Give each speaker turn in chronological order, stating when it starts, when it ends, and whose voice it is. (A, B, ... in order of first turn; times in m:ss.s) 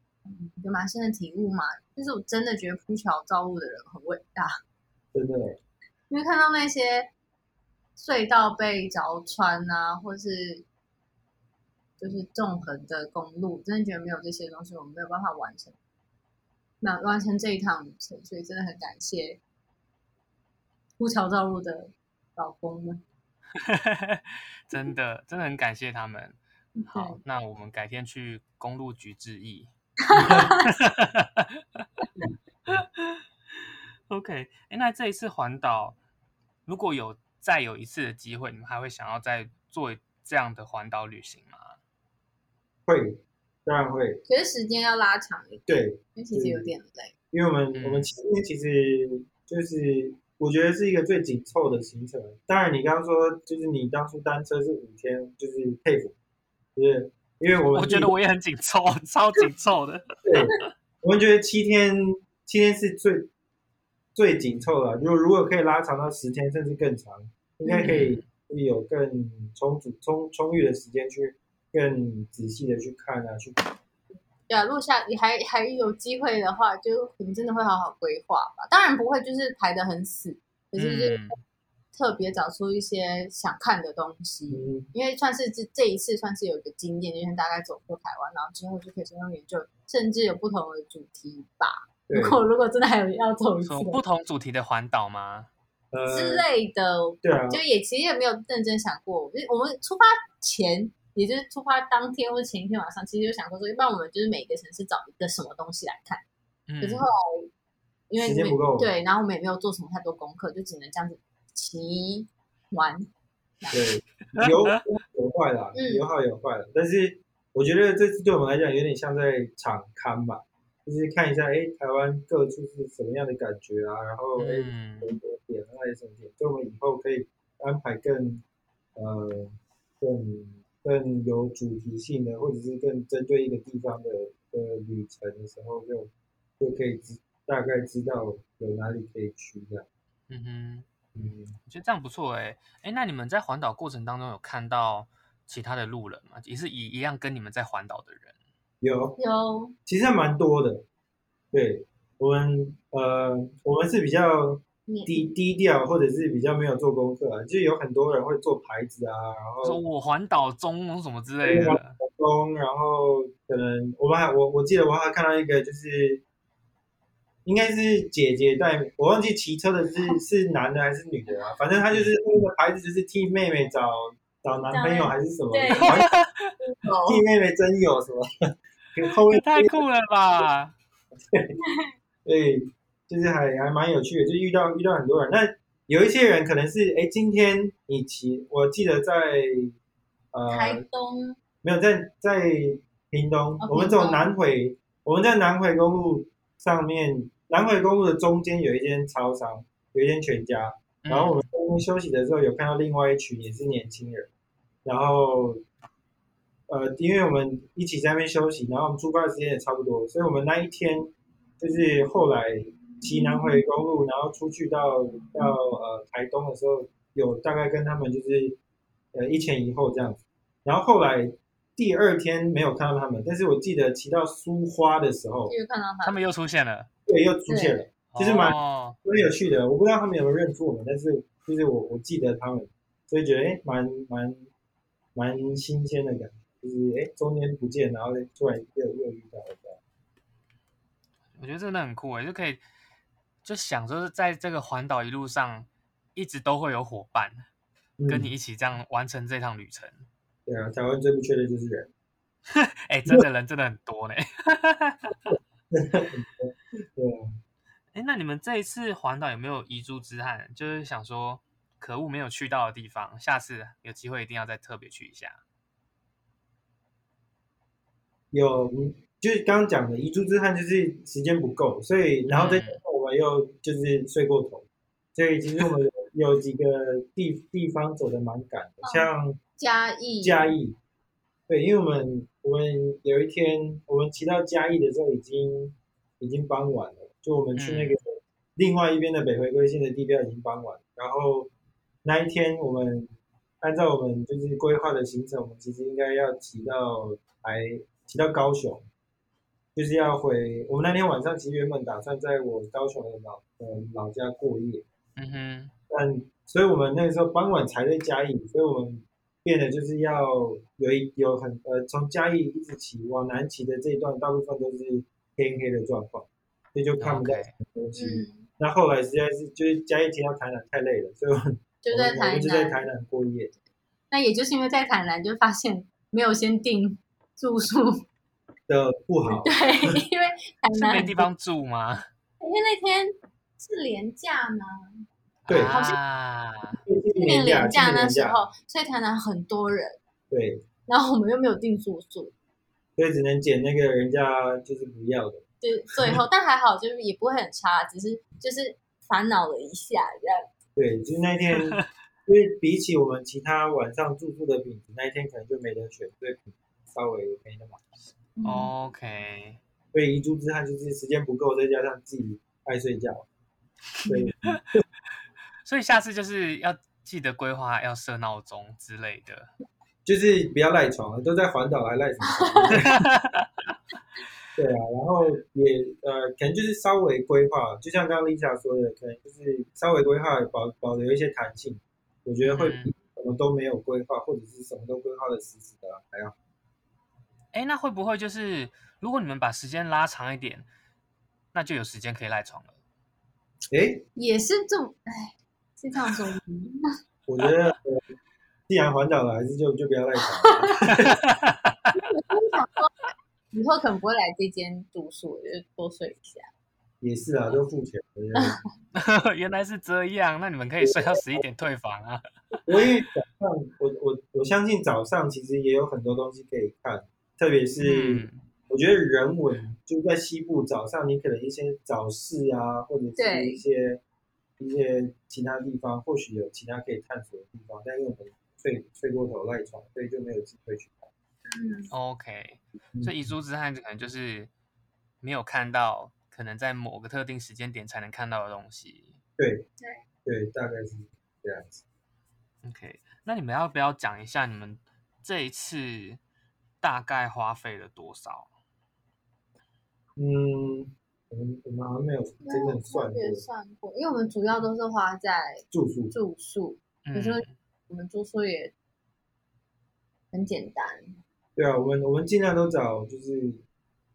0:00.3-0:04.5 A
0:05.1-0:05.6 B
0:06.1-0:07.1 A
0:08.0-0:10.6 A
0:12.0-0:15.8 A
0:16.8-0:19.4 A
0:21.0-0:23.0 A
0:23.6-0:29.7 C
0:26.8-0:27.2 A
0:30.0-0:30.7 A
0:30.2-0:31.9 C
0:32.7-0:33.2 C
0:34.1-0:36.0 C
0:36.7-0:41.8 C
0:42.9-0:44.2 B
0:44.3-0:47.1 A
0:45.7-0:46.7 B
0:47.3-0:56.2 B
0:47.7-0:48.1 C
0:56.8-0:58.1 B
0:57.7-1:00.1 C
1:00.2-1:03.3 B
1:04.2-1:13.6 B
1:07.6-1:08.0 A
1:07.8-1:08.3 C
1:14.5-1:21.3 A
1:20.8-1:21.4 C
1:21.9-1:34.0 A
1:24.5-1:24.9 B
1:32.1-1:32.4 B
1:33.6-1:35.5 C
1:35.9-1:36.4 B
1:36.1-1:46.2 A
1:37.2-1:37.6 B
1:46.7-1:47.1 C
1:46.8-1:47.5 A
1:48.1-1:53.1 A
1:48.2-1:48.9 B
1:53.7-2:08.4 B
1:54.4-1:54.8 C
1:55.8-1:56.1 A
2:04.4-2:05.2 C
2:09.0-2:19.9 B
2:20.3-2:20.9 C
2:21.1-2:21.6 B
2:21.6-2:28.3 C
2:28.8-2:29.2 B
2:29.2-2:29.7 A
2:29.9-2:30.8 B
2:31.5-2:39.8 B
2:34.9-2:35.3 A
2:39.6-2:42.0 C
2:41.4-2:46.2 B
2:47.4-2:56.1 B
2:54.7-2:56.0 A
2:55.8-2:56.5 C
2:56.6-2:57.2 A
2:57.1-2:58.2 B
2:59.0-2:59.8 B
2:59.3-3:00.8 C
3:02.2-3:09.7 B
3:10.3-3:10.8 B
3:10.5-3:11.4 A
3:11.6-3:24.3 B
3:13.6-3:14.3 A
3:21.0-3:21.4 C
3:24.8-3:25.6 B
3:26.7-3:38.6 B
3:39.1-3:45.5 B
3:45.5-3:46.2 A
3:46.0-3:46.9 C
3:47.1-3:54.5 B
3:47.5-3:47.8 A
3:48.1-3:49.0 C
3:55.2-3:59.8 B
4:01.4-4:02.6 C
4:03.4-4:07.4 C
4:08.0-4:08.3 B
4:08.1-4:10.0 C
4:10.5-4:11.9 B
4:12.5-4:15.3 C
4:15.7-4:17.3 B
4:17.9-4:25.4 C
4:28.3-4:39.4 B
4:32.3-4:32.8 C
4:38.8-4:40.5 A
4:40.2-4:40.8 B
4:41.5-4:51.5 B
4:47.6-4:48.0 C
4:52.0-4:58.9 B
4:59.8-5:04.8 B
5:05.2-5:05.7 C
5:05.9-5:23.5 B
5:17.0-5:17.6 C
5:18.0-5:18.5 A
5:21.8-5:22.8 A
5:24.1-5:28.0 A
5:28.7-5:30.0 B
5:29.3-5:31.3 A
5:30.8-5:32.1 C
5:32.4-5:35.0 A
5:35.5-5:36.8 C
5:35.5-5:35.8 B
5:35.7-5:36.0 A
5:36.8-5:38.4 B
5:37.2-5:40.0 A
5:40.3-5:40.7 B
5:40.9-5:42.3 A
5:43.0-5:45.4 B
5:45.6-5:50.5 A
5:50.8-5:57.8 B
5:58.4-5:58.7 A
5:58.4-5:59.6 C
5:59.9-6:03.3 B
6:04.1-6:04.8 B
6:05.6-6:09.5 C
6:10.1-6:12.9 B
6:12.3-6:12.8 A
6:12.7-6:13.5 C
6:14.6-6:26.4 B
6:22.4-6:22.9 C
6:27.5-6:30.7 C
6:31.5-6:32.8 C
6:33.7-6:34.0 B
6:34.2-6:36.8 A
6:37.3-6:38.0 B
6:38.7-6:41.2 B
6:40.4-6:40.8 A
6:40.9-6:42.0 C
6:42.0-6:46.5 A
6:47.0-6:48.6 B
6:48.9-6:52.2 C
6:52.7-7:04.0 B
6:57.8-6:58.4 C
7:03.2-7:03.6 A
7:04.6-7:11.1 B
7:11.5-7:11.9 A
7:11.9-7:14.5 C
7:13.0-7:13.3 B
7:15.2-7:19.2 C
7:19.4-7:19.7 B
7:20.2-7:21.8 B
7:22.6-7:26.2 C
7:26.8-7:28.5 C
7:30.2-7:33.4 B
7:32.4-7:38.7 A
7:35.7-7:36.1 B
7:37.1-7:37.5 C
7:40.3-7:41.2 A
7:41.6-7:43.6 B